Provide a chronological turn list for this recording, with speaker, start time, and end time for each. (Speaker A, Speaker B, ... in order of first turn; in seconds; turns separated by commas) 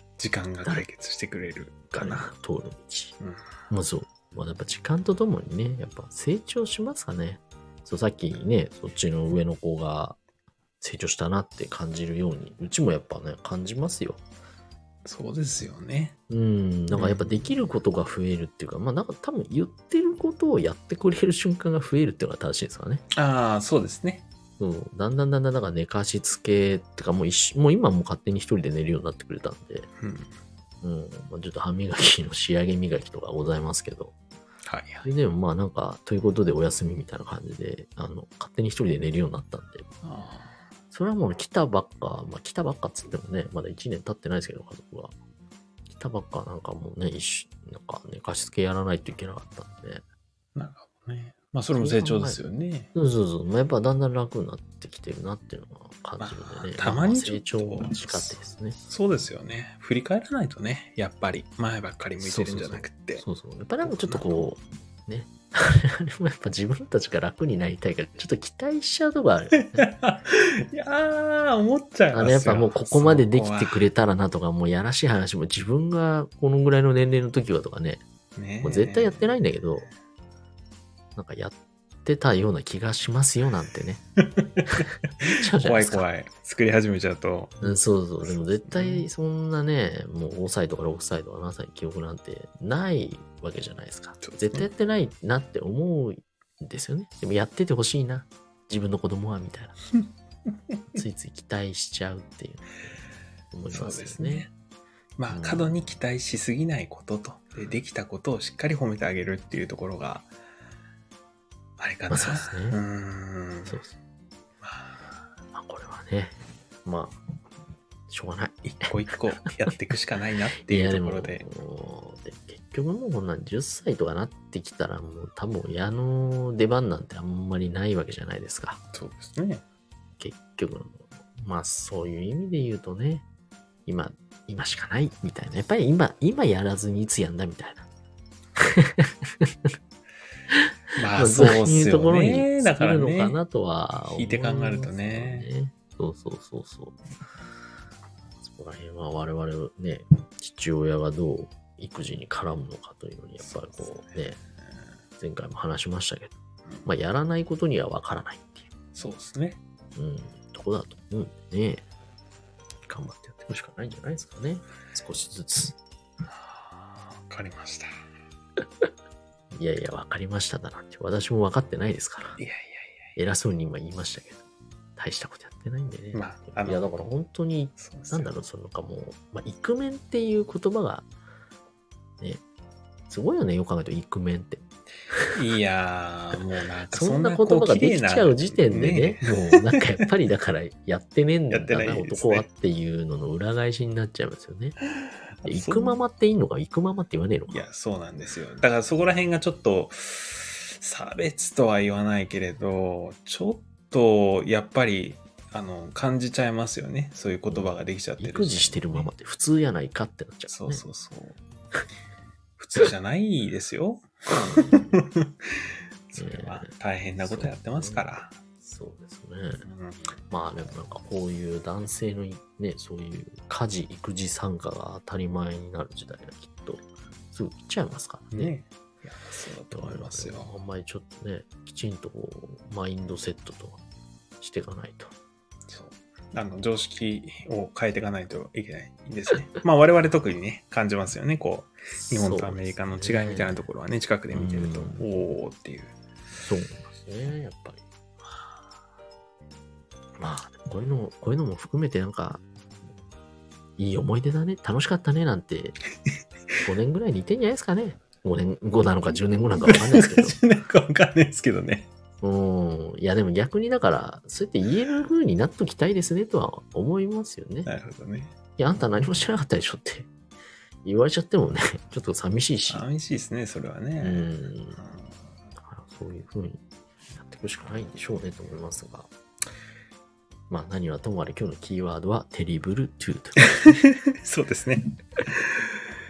Speaker A: 0.2-2.3, Speaker B: 1.9-3.1, Speaker B: 3.7-10.2, Speaker B: 10.8-14.2, Speaker A: 15.0-16.1, Speaker B: 16.3-23.0, Speaker A: 16.9-17.5, Speaker A: 23.1-24.2, Speaker B: 24.6-29.9, Speaker A: 30.0-30.3, Speaker B: 30.8-34.1, Speaker A: 34.6-35.1, Speaker B: 35.0-39.9, Speaker A: 40.0-40.6, Speaker B: 40.9-45.1, Speaker B: 45.9-50.0, Speaker A: 50.5-52.9, Speaker B: 51.7-52.4, Speaker B: 52.9-58.8, Speaker A: 56.2-63.2, Speaker B: 62.2-69.8, Speaker A: 63.8-64.4, Speaker A: 69.5-73.9, Speaker B: 72.1-78.0, Speaker A: 78.3-79.3, Speaker B: 78.6-79.9, Speaker B: 81.2-84.0, Speaker A: 84.2-87.7, Speaker B: 84.7-86.0, Speaker B: 87.6-99.8, Speaker A: 88.6-89.0, Speaker A: 94.2-94.7, Speaker B: 100.9-102.7, Speaker B: 103.5-104.5, Speaker A: 103.7-104.5, Speaker A: 105.2-110.3, Speaker B: 105.3-105.7, Speaker A: 111.8-113.8, Speaker B: 112.1-112.8, Speaker B: 113.7-113.9, Speaker A: 114.6-115.2, Speaker B: 115.5-117.2, Speaker B: 118.1-118.6, Speaker A: 118.6-121.5, Speaker B: 120.6-128.8, Speaker A: 128.9-129.6, Speaker B: 130.2-133.2, Speaker B: 133.8-137.8, Speaker B: 138.6-139.7, Speaker B: 140.5-147.0, Speaker A: 140.9-143.4, Speaker A: 144.1-145.5, Speaker B: 148.4-154.4, Speaker A: 153.4-154.2, Speaker B: 155.2-156.3, Speaker B: 156.8-158.7, Speaker A: 158.9-159.6, Speaker B: 159.9-161.8, Speaker B: 162.8-165.8, Speaker A: 166.3-167.9, Speaker B: 168.6-168.9, Speaker B: 169.5-172.4, Speaker A: 172.4-173.1, Speaker B: 173.2-174.4, Speaker B: 175.0-181.1, Speaker A: 176.1-177.0, Speaker A: 177.8-178.3, Speaker B: 183.1-185.4, Speaker A: 185.3-190.1, Speaker B: 186.9-194.8, Speaker A: 191.5-192.5, Speaker A: 195.0-196.0, Speaker B: 195.4-197.7, Speaker A: 197.5-209.1, Speaker B: 207.5-210.8, Speaker A: 210.5-211.4, Speaker A: 212.6-218.3, Speaker B: 214.5-214.9, Speaker B: 216.2-216.7, Speaker B: 217.2-218.1, Speaker B: 218.6-219.6, Speaker A: 219.6-220.1, Speaker B: 220.3-228.5, Speaker A: 228.3-230.6, Speaker B: 229.7-233.8, Speaker B: 234.4-235.1, Speaker A: 235.7-245.9, Speaker B: 241.9-243.7, Speaker B: 244.3-245.0, Speaker B: 246.4-247.8, Speaker B: 250.2-252.4, Speaker B: 253.8-255.8, Speaker B: 256.6-260.4, Speaker A: 259.6-261.9, Speaker B: 262.2-267.7, Speaker A: 267.6-268.3, Speaker B: 268.6-270.1, Speaker B: 270.8-272.8, Speaker A: 272.7-275.1, Speaker B: 274.0-274.8, Speaker B: 275.6-276.6, Speaker B: 277.1-279.1, Speaker B: 280.5-283.4, Speaker A: 283.4-285.9